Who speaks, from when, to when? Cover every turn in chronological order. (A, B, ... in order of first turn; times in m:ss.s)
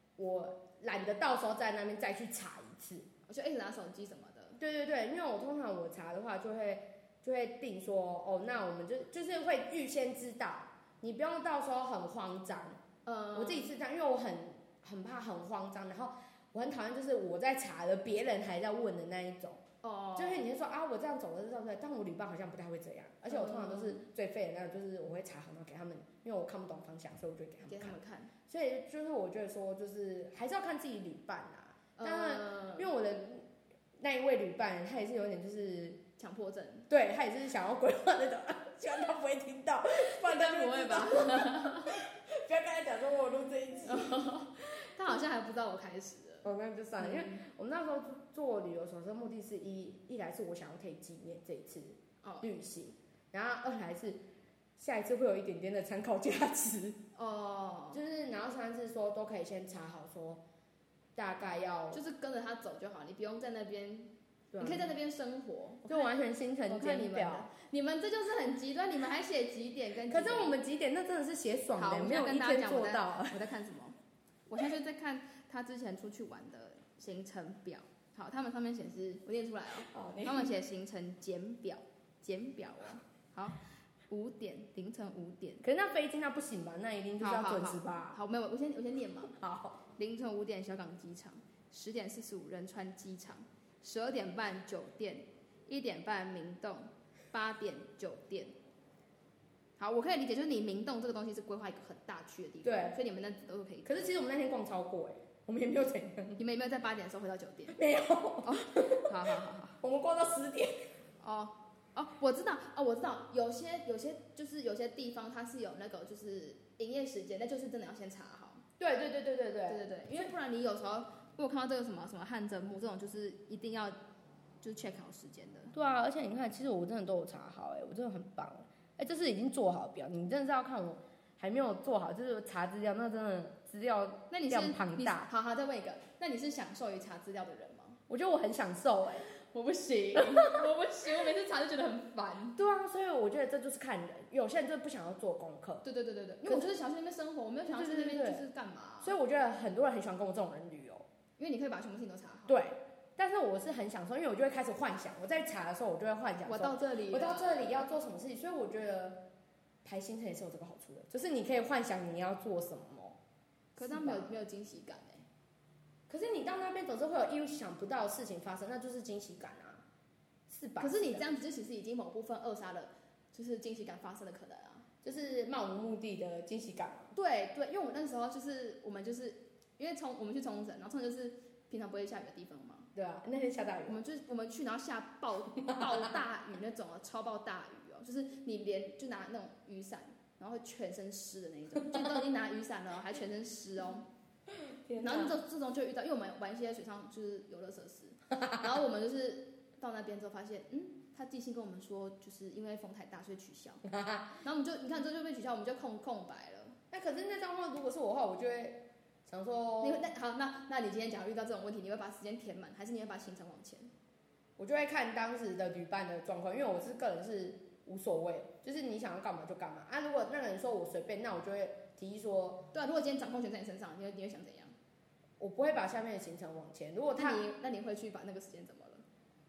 0:00.2-0:03.1 A
0:03.3-0:04.6 B
0:04.6-0:12.8 A
0:13.0-0:13.7 B
0:13.3-0:19.6 A
0:19.8-0:20.5 B
0:20.2-0:28.0 A
0:23.3-0:24.0 B
0:27.7-0:28.3 B
0:28.5-0:33.5 A
0:32.0-0:32.9 B
0:34.0-0:36.0 A
0:36.2-0:36.9 B
0:36.9-0:44.2 A
0:40.0-0:42.0 B
0:43.8-0:47.4 B
0:46.4-0:54.2 A
0:52.2-0:52.5 B
0:54.8-0:57.0 A
0:57.1-0:58.0 B
0:57.9-1:00.4 A
1:01.2-1:02.0 A
1:01.9-1:06.1 B
1:04.5-1:04.9 A
1:05.8-1:07.5 A
1:06.7-1:10.6 B
1:10.1-1:13.4 A
1:11.8-1:14.0 B
1:14.5-1:25.6 B
1:19.9-1:20.5 A
1:25.6-1:28.2 A
1:27.2-1:29.4 B
1:29.3-1:29.8 A
1:29.9-1:38.5 B
1:39.8-1:44.1 B
1:42.6-1:43.0 A
1:43.8-1:46.4 A
1:46.4-1:47.8 B
1:47.7-1:49.2 A
1:48.4-1:49.8 B
1:49.8-1:50.8 A
1:51.2-1:58.6 B
1:58.8-2:00.3 A
1:59.7-2:04.0 B
2:04.6-2:05.7 B
2:05.7-2:15.3 A
2:14.3-2:18.0 B
2:18.1-2:19.3 A
2:19.2-2:22.6 B
2:20.1-2:20.6 A
2:22.5-2:25.8 A
2:25.8-2:29.1 B
2:27.7-2:28.4 A
2:29.0-2:31.0 A
2:31.4-2:32.6 B
2:32.5-2:39.2 A
2:36.4-2:37.9 B
2:39.8-2:43.2 A
2:43.8-2:45.2 B
2:43.8-2:44.3 A
2:46.1-2:49.8 A
2:50.5-2:51.2 A
2:50.8-2:54.8 B
2:55.0-2:57.1 A
2:57.1-3:02.9 B
3:02.9-3:04.0 A
3:03.9-3:14.0 B
3:05.6-3:06.1 A
3:11.8-3:12.2 A
3:14.5-3:15.4 A
3:15.0-3:23.9 B
3:23.9-3:24.3 A
3:24.4-3:26.8 B
3:26.9-3:30.1 A
3:29.8-3:33.9 B
3:34.6-3:42.7 A
3:42.7-3:44.7 B
3:45.4-3:47.4 A
3:47.2-3:49.0 B